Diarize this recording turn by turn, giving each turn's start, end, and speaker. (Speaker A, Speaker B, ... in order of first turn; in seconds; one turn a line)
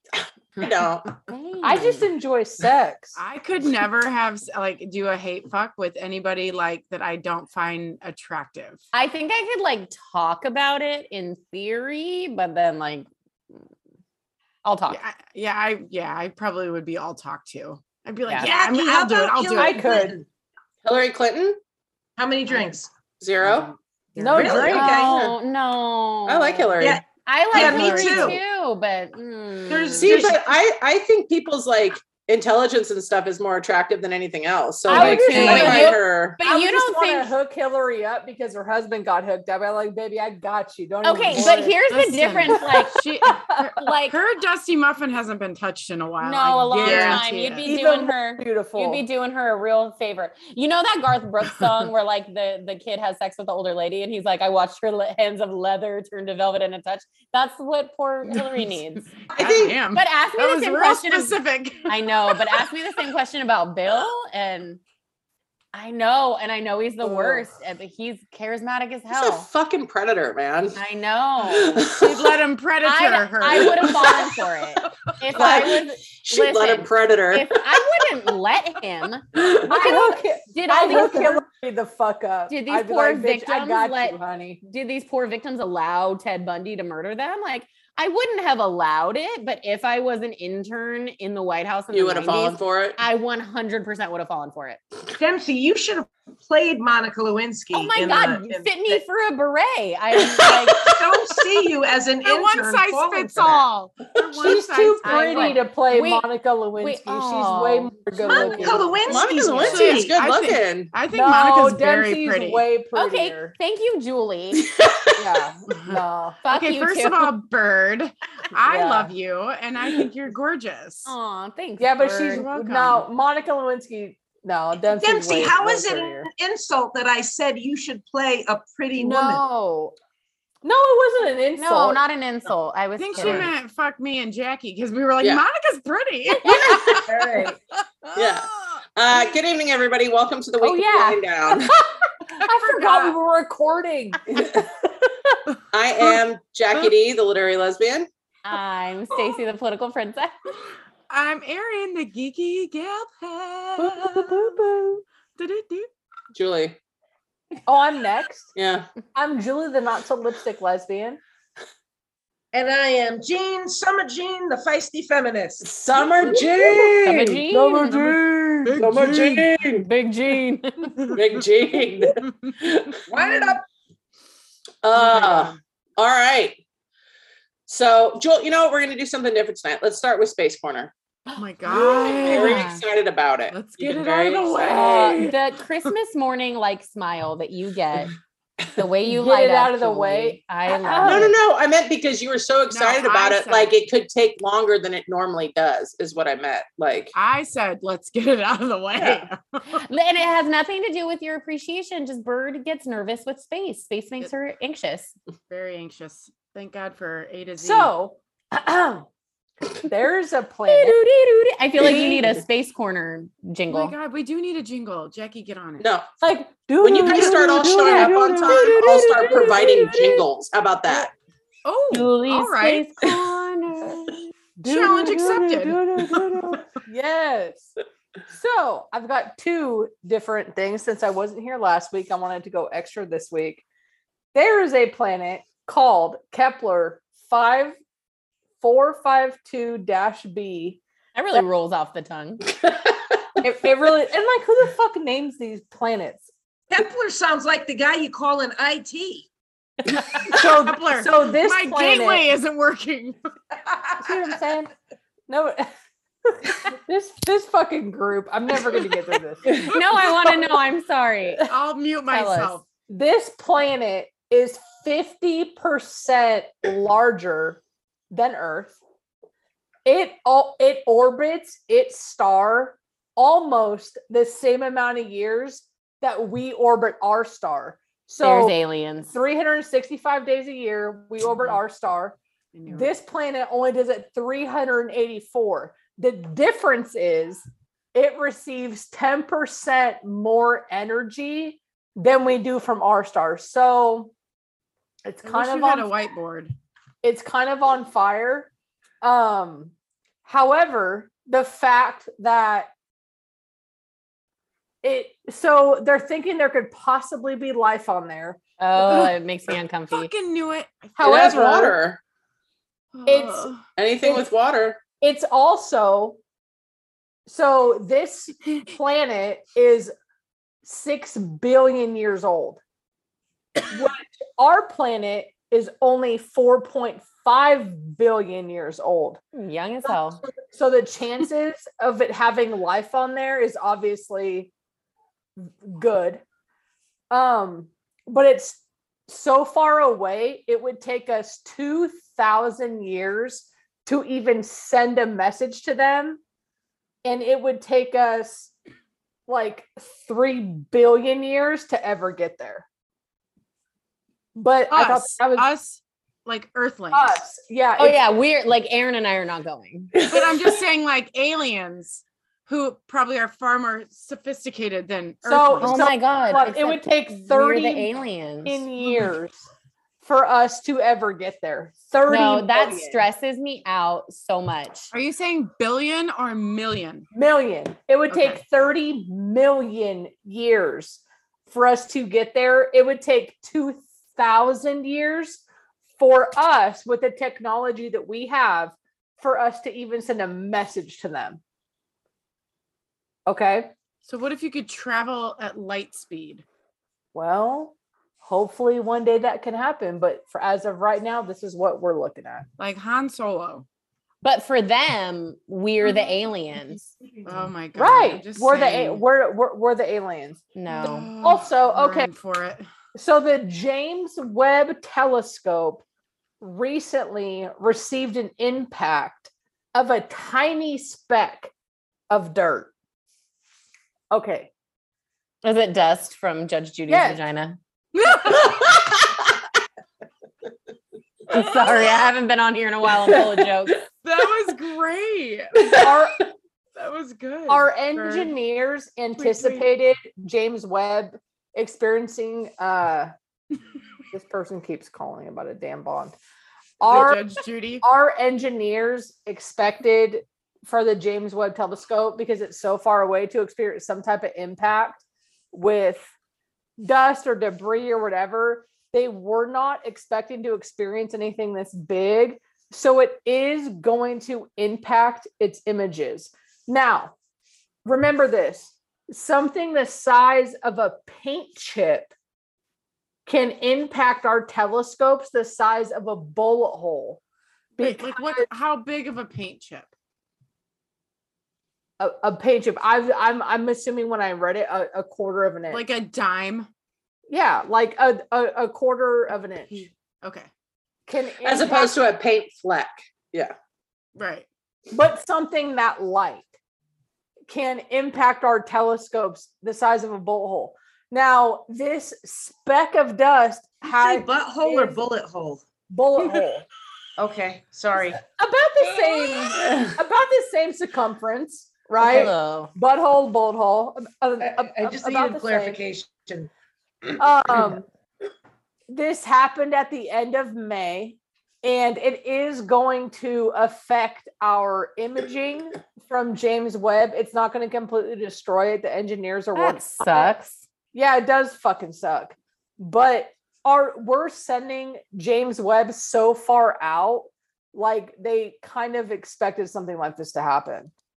Speaker A: 0.2-1.1
Speaker B: 1.3-2.0
Speaker C: 1.6-3.2
Speaker D: 3.2-8.8
Speaker B: 8.9-13.6
Speaker B: 14.6-15.0
Speaker D: 14.9-20.1
Speaker B: 18.3-18.5
Speaker E: 18.4-20.3
Speaker C: 19.6-20.1
Speaker A: 20.8-21.6
Speaker E: 22.2-25.1
Speaker A: 23.2-23.7
Speaker C: 24.2-25.0
Speaker B: 24.4-30.3
Speaker A: 24.9-25.4
Speaker A: 26.3-27.0
Speaker E: 26.8-28.4
Speaker E: 29.7-30.5
Speaker A: 30.0-36.4
Speaker C: 34.9-41.8
Speaker B: 34.9-37.3
Speaker E: 35.3-36.0
Speaker B: 41.0-43.0
Speaker D: 41.3-47.7
Speaker B: 43.8-44.2
Speaker B: 46.2-59.1
Speaker E: 46.8-47.2
Speaker C: 47.6-49.0
Speaker D: 59.3-62.7
Speaker A: 59.3-59.8
Speaker B: 59.9-64.8
Speaker B: 65.7-69.5
Speaker C: 67.0-67.5
Speaker A: 69.1-70.8
Speaker B: 70.8-71.9
Speaker A: 71.5-72.3
Speaker D: 71.9-74.9
Speaker B: 72.8-81.4
Speaker A: 73.5-74.3
Speaker A: 75.3-77.8
Speaker A: 79.3-79.7
Speaker C: 79.7-84.6
Speaker B: 82.5-94.8
Speaker A: 91.9-93.0
Speaker E: 95.2-99.0
Speaker B: 97.7-100.9
Speaker A: 100.3-101.0
Speaker E: 100.8-103.6
Speaker D: 102.2-105.6
Speaker C: 104.3-109.8
Speaker B: 105.0-106.3
Speaker B: 106.8-108.9
Speaker E: 108.6-110.2
Speaker A: 109.1-110.9
Speaker D: 109.7-112.6
Speaker C: 111.1-113.5
Speaker B: 113.0-114.7
Speaker A: 114.5-115.2
Speaker C: 115.2-116.4
Speaker D: 115.7-116.0
Speaker B: 116.4-117.3
Speaker D: 116.5-121.1
Speaker B: 118.7-119.1
Speaker B: 121.1-122.5
Speaker C: 121.8-126.3
Speaker D: 122.2-123.0
Speaker E: 125.0-129.4
Speaker C: 129.0-129.9
Speaker C: 130.6-132.0
Speaker B: 131.6-133.5
Speaker D: 133.0-137.5
Speaker A: 136.5-137.0
Speaker E: 137.1-137.6
Speaker D: 138.1-138.8
Speaker A: 138.2-141.8
Speaker B: 140.6-141.2
Speaker C: 141.6-144.2
Speaker D: 142.4-143.2
Speaker A: 144.3-144.7
Speaker C: 145.1-145.4
Speaker A: 145.7-148.1
Speaker B: 148.4-150.5
Speaker D: 151.1-154.6
Speaker C: 153.8-155.0
Speaker D: 155.4-155.9
Speaker A: 156.3-156.8
Speaker C: 157.7-158.5
Speaker A: 158.6-158.9
Speaker C: 159.1-161.2
Speaker E: 162.5-165.7
Speaker A: 165.6-167.4
Speaker B: 167.0-168.0
Speaker C: 167.5-168.7
Speaker D: 167.9-169.5
Speaker A: 168.8-169.9
Speaker B: 169.7-171.2
Speaker D: 171.1-171.4
Speaker A: 171.1-173.0
Speaker D: 172.3-172.5
Speaker E: 173.1-173.6
Speaker D: 173.2-173.5
Speaker A: 174.8-176.6
Speaker D: 174.9-175.6
Speaker A: 177.7-180.9
Speaker D: 181.4-182.7
Speaker C: 181.7-182.6
Speaker A: 182.1-184.9
Speaker B: 182.3-182.8
Speaker D: 183.5-185.3
Speaker B: 184.7-188.1
Speaker C: 184.7-185.3
Speaker B: 188.7-191.3
Speaker C: 189.1-191.3
Speaker A: 191.0-197.1
Speaker D: 192.7-193.7
Speaker D: 197.2-199.9
Speaker A: 199.0-199.3
Speaker B: 199.9-205.2
Speaker D: 205.5-207.9
Speaker C: 207.6-209.1
Speaker C: 209.8-211.0
Speaker B: 210.7-213.9
Speaker C: 211.8-212.2
Speaker D: 213.7-215.8
Speaker A: 215.8-216.1
Speaker C: 216.2-220.2
Speaker A: 216.8-221.1
Speaker D: 221.7-222.9
Speaker B: 221.9-224.2
Speaker C: 224.6-227.7
Speaker D: 224.7-225.8
Speaker E: 224.7-225.5
Speaker C: 228.3-233.6
Speaker C: 234.3-237.8
Speaker C: 238.6-240.8
Speaker B: 241.2-242.4
Speaker C: 243.4-246.3
Speaker E: 246.7-249.3
Speaker C: 250.3-252.3
Speaker D: 250.3-253.2
Speaker E: 253.7-254.0
Speaker C: 254.0-254.7
Speaker C: 255.3-255.7
Speaker C: 256.2-259.6
Speaker B: 259.6-261.4
Speaker D: 261.5-262.6
Speaker B: 262.1-262.6
Speaker C: 262.9-268.8
Speaker C: 269.9-278.6
Speaker B: 278.2-279.1
Speaker C: 279.1-294.1
Speaker D: 281.3-281.6
Speaker D: 282.5-282.9
Speaker C: 295.1-295.9
Speaker D: 295.2-296.6
Speaker C: 297.0-298.5
Speaker C: 299.0-299.7
Speaker C: 300.2-302.7
Speaker C: 304.8-308.4
Speaker B: 308.6-310.1
Speaker D: 308.8-311.3
Speaker C: 311.0-311.8
Speaker A: 311.0-312.0
Speaker D: 312.9-313.6
Speaker C: 313.1-313.5
Speaker A: 313.8-314.8
Speaker C: 314.0-314.3
Speaker C: 315.0-316.2
Speaker C: 317.3-319.9
Speaker C: 320.6-322.6
Speaker C: 323.7-329.2
Speaker B: 329.3-330.2
Speaker C: 330.5-334.5
Speaker C: 335.4-336.2
Speaker C: 337.1-346.2
Speaker C: 347.0-348.5
Speaker C: 349.3-352.7
Speaker C: 354.4-355.5
Speaker D: 354.7-357.2
Speaker C: 356.9-358.0
Speaker B: 357.8-359.9
Speaker A: 359.9-360.6
Speaker D: 360.1-365.8
Speaker C: 365.2-367.9
Speaker B: 365.6-368.7
Speaker C: 368.4-369.5
Speaker C: 370.0-373.0
Speaker B: 372.1-374.9
Speaker D: 374.9-377.1
Speaker C: 377.1-385.4
Speaker D: 378.1-378.4
Speaker C: 386.0-391.4
Speaker C: 393.3-393.7
Speaker D: 394.1-396.4
Speaker C: 397.1-402.4
Speaker D: 402.6-403.7
Speaker B: 404.2-406.8
Speaker D: 407.2-409.0
Speaker C: 407.8-410.4
Speaker B: 410.6-411.1
Speaker D: 410.7-412.7
Speaker C: 411.2-412.1
Speaker C: 412.9-415.8
Speaker C: 416.4-421.5
Speaker C: 422.1-422.7
Speaker C: 424.1-424.5
Speaker B: 425.4-427.6
Speaker C: 426.9-427.2
Speaker D: 427.9-428.7
Speaker A: 428.3-429.1
Speaker B: 431.3-433.8
Speaker A: 433.1-433.5
Speaker D: 434.0-435.8
Speaker A: 435.6-435.9
Speaker C: 435.8-436.2
Speaker D: 436.8-438.3
Speaker C: 437.5-443.1
Speaker D: 439.2-439.7
Speaker C: 444.1-446.1
Speaker C: 446.8-447.3
Speaker D: 446.9-447.9
Speaker C: 447.8-456.1
Speaker C: 456.8-467.1
Speaker C: 467.9-472.1
Speaker C: 473.3-477.2
Speaker C: 477.8-478.5
Speaker D: 477.8-479.9
Speaker C: 482.0-485.8
Speaker D: 485.7-486.7
Speaker C: 487.3-489.9
Speaker D: 489.7-490.5
Speaker C: 491.1-491.9
Speaker A: 491.4-493.6
Speaker D: 494.2-494.5
Speaker C: 494.9-496.5
Speaker C: 497.5-505.0
Speaker E: 503.9-505.6
Speaker C: 505.9-506.7
Speaker E: 507.2-508.2
Speaker C: 508.4-515.8
Speaker A: 509.6-509.9
Speaker B: 512.0-512.7
Speaker E: 514.4-516.5
Speaker C: 517.2-517.9
Speaker C: 518.9-530.4
Speaker B: 529.5-530.6
Speaker C: 530.9-540.9